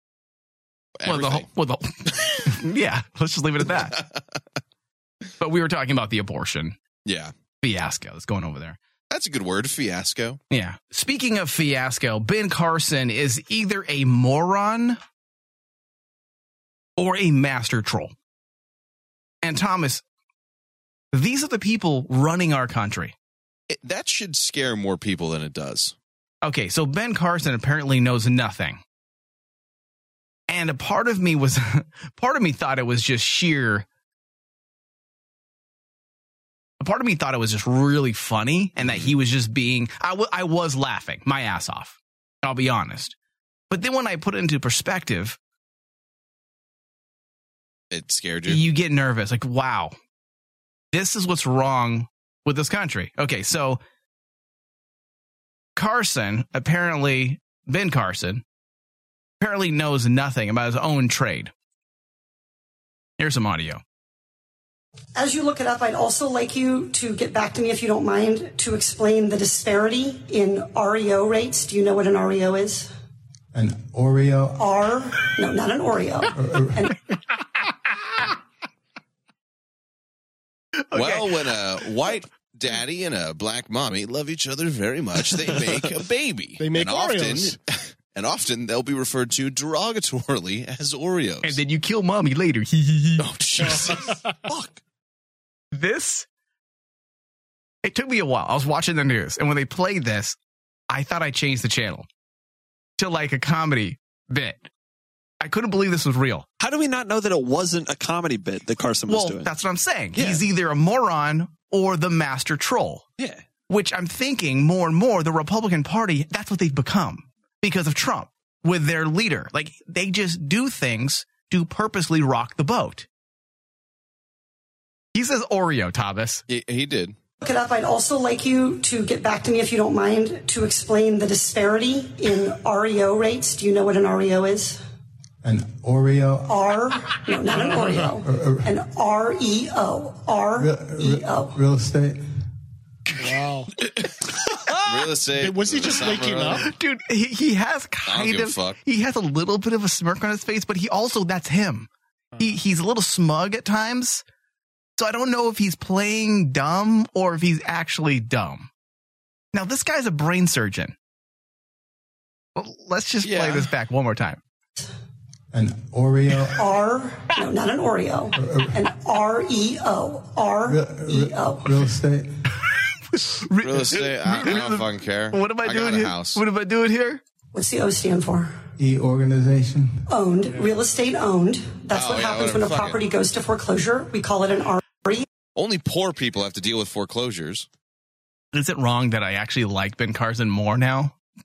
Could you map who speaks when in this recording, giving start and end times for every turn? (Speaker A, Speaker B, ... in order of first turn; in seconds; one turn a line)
Speaker A: 1.0-1.5
Speaker B: 1.0-4.0
Speaker A: 3.9-4.2
Speaker B: 5.4-6.8
Speaker A: 7.0-7.3
Speaker B: 7.6-8.8
Speaker A: 9.1-10.4
Speaker B: 10.5-15.0
Speaker B: 17.0-18.1
Speaker B: 19.4-20.0
Speaker B: 21.1-23.1
Speaker A: 23.7-25.9
Speaker B: 26.4-28.8
Speaker B: 30.5-33.9
Speaker B: 36.8-43.1
Speaker A: 38.8-39.1
Speaker B: 43.7-45.4
Speaker A: 47.9-48.6
Speaker B: 48.5-49.9
Speaker B: 50.9-53.8
Speaker B: 55.8-58.4
Speaker B: 59.4-61.5
Speaker B: 63.2-63.8
Speaker C: 65.2-72.9
Speaker D: 73.5-74.6
Speaker C: 74.5-77.0
Speaker D: 76.3-76.8
Speaker B: 80.9-81.3
Speaker A: 80.9-91.6
Speaker E: 86.6-87.5
Speaker B: 91.4-93.3
Speaker A: 93.2-94.8
Speaker E: 93.7-94.1
Speaker B: 95.7-96.3
Speaker B: 97.8-100.3
Speaker B: 100.9-102.0
Speaker B: 103.0-104.7
Speaker B: 105.4-106.5
Speaker F: 106.6-109.5
Speaker B: 109.1-113.0
Speaker A: 110.2-110.4
Speaker B: 113.7-123.1
Speaker B: 125.1-126.4
Speaker A: 126.5-127.2
Speaker C: 127.4-134.8
Speaker D: 135.4-136.5
Speaker C: 136.5-141.6
Speaker E: 137.5-138.1
Speaker D: 138.2-138.7
Speaker D: 140.6-142.2
Speaker E: 143.2-143.7
Speaker A: 144.8-146.6
Speaker E: 145.3-146.7
Speaker B: 146.7-151.9
Speaker A: 148.1-148.8
Speaker B: 152.4-154.2
Speaker B: 155.0-158.7
Speaker B: 159.5-160.9
Speaker B: 162.6-164.4
Speaker A: 163.2-163.7
Speaker D: 165.5-166.7
Speaker C: 166.4-171.8
Speaker D: 168.3-168.7
Speaker D: 170.7-172.3
Speaker B: 173.1-177.2
Speaker A: 173.6-176.4
Speaker C: 177.5-178.6
Speaker D: 178.8-180.0
Speaker C: 180.1-185.2
Speaker E: 180.5-180.8
Speaker A: 181.9-183.0
Speaker A: 185.5-187.7
Speaker B: 188.5-191.1